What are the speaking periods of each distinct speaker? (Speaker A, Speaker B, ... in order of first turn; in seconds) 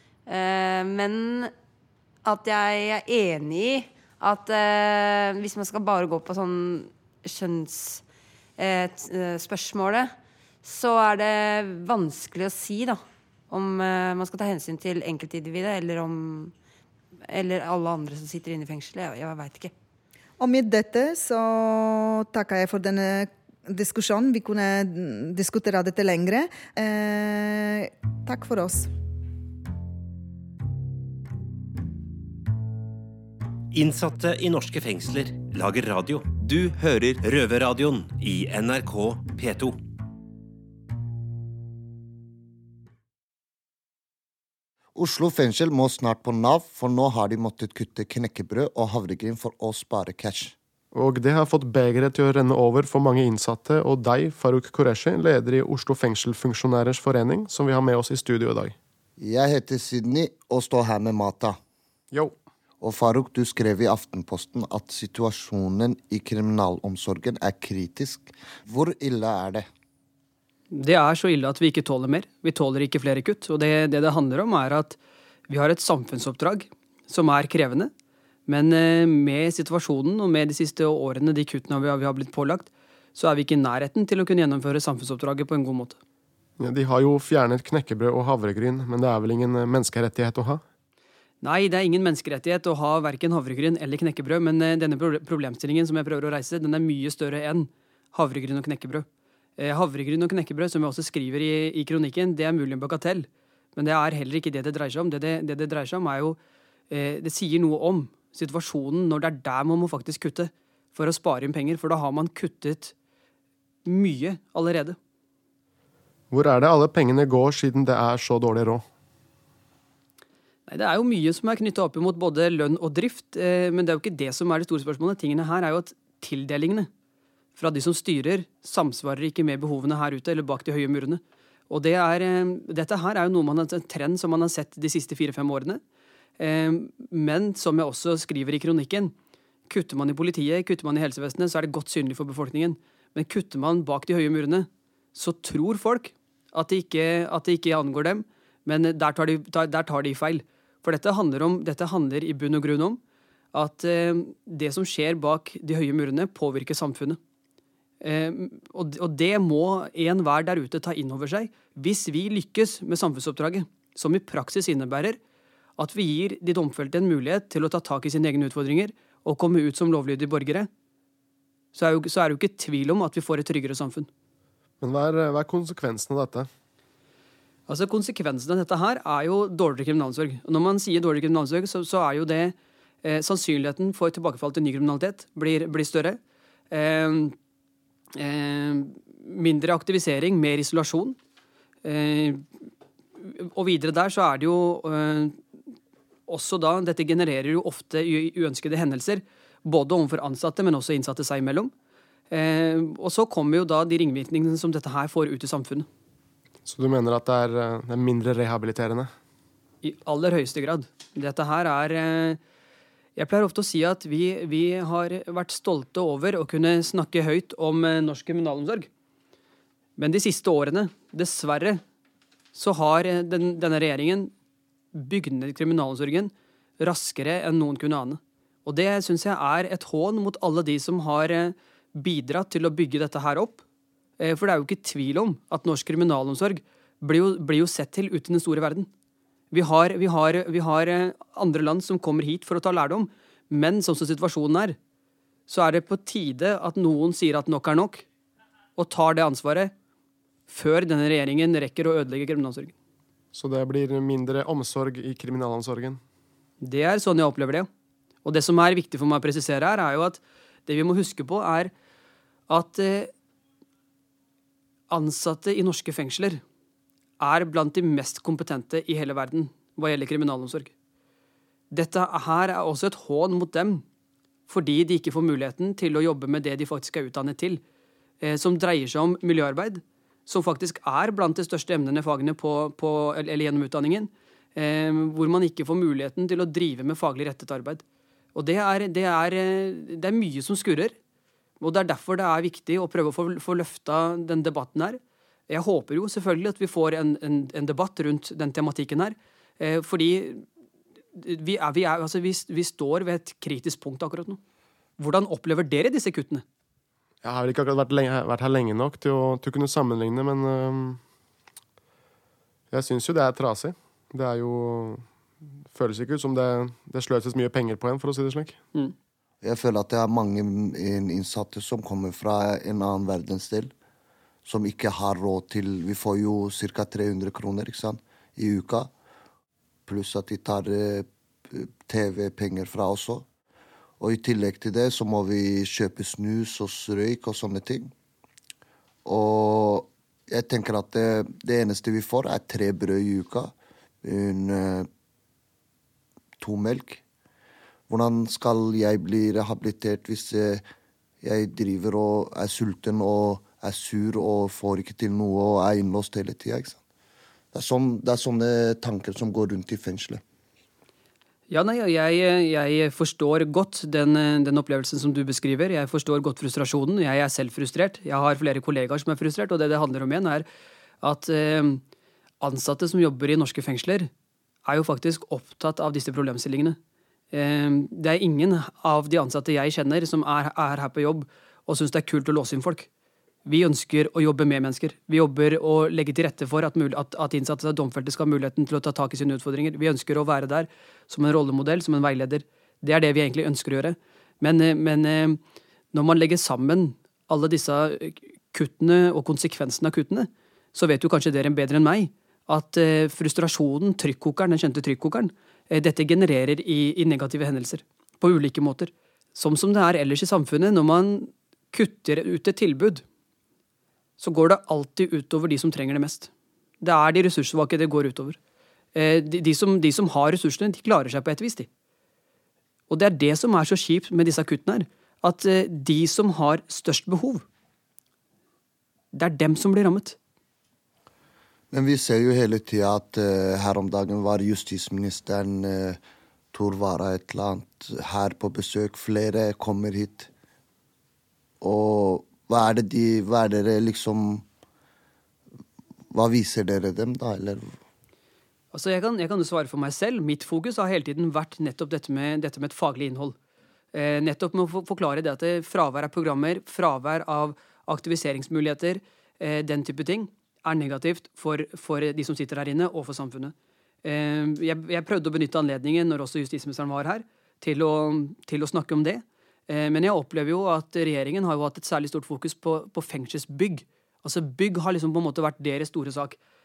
Speaker A: 0.3-1.5, 2.2-8.0, 8.6-10.1, 10.6-16.5, 17.3-19.7
Speaker B: 20.4-28.9
Speaker C: 33.7-39.8
Speaker D: 45.0-50.5, 59.2-61.6, 62.8-69.7, 319.4-323.7, 324.4-328.9, 329.9-333.3, 334.0-337.9, 339.1-344.9, 346.4-347.0, 347.9-350.6, 351.2-356.8, 357.5-360.2, 431.7-436.0, 436.5-440.3, 441.6-444.4, 446.1-447.8
Speaker E: 50.9-58.8, 62.1-62.4, 86.6-90.6, 116.3-118.8, 174.8-176.5, 206.7-209.1, 253.3-256.0, 307.2-311.0, 312.7-315.1, 315.7-318.6
Speaker F: 70.7-75.0, 75.5-77.9, 78.5-86.0, 91.4-99.1, 99.6-106.4, 106.9-112.9, 113.8-115.0, 120.7-126.9, 127.6-135.8, 136.4-139.1, 139.7-153.0, 153.5-157.2, 158.0-165.2, 165.8-170.7, 171.7-174.1, 177.7-186.2, 186.7-187.4, 188.2-191.2, 191.8-192.4, 193.2-195.4, 196.3-201.7, 202.3-205.9, 209.8-212.4, 213.2-218.9, 220.0-221.8, 222.5-224.3, 224.9-233.6, 234.2-238.9, 239.5-244.8, 245.5-248.1, 248.8-249.7, 250.5-252.7, 256.6-257.7, 258.2-261.7, 262.5-263.1, 264.9-266.4, 267.2-270.7, 271.7-273.8, 274.5-277.6, 278.2-287.8, 288.4-290.9, 291.6-300.4, 301.1-304.4, 305.0-306.4, 361.5-370.5, 371.0-371.8, 372.4-374.1, 374.7-376.8, 377.3-382.9, 383.5-395.4, 395.9-413.0, 414.2-416.3, 416.8-418.4, 418.9-421.7, 422.9-427.4, 429.1-430.2, 448.7-453.4, 453.9-476.4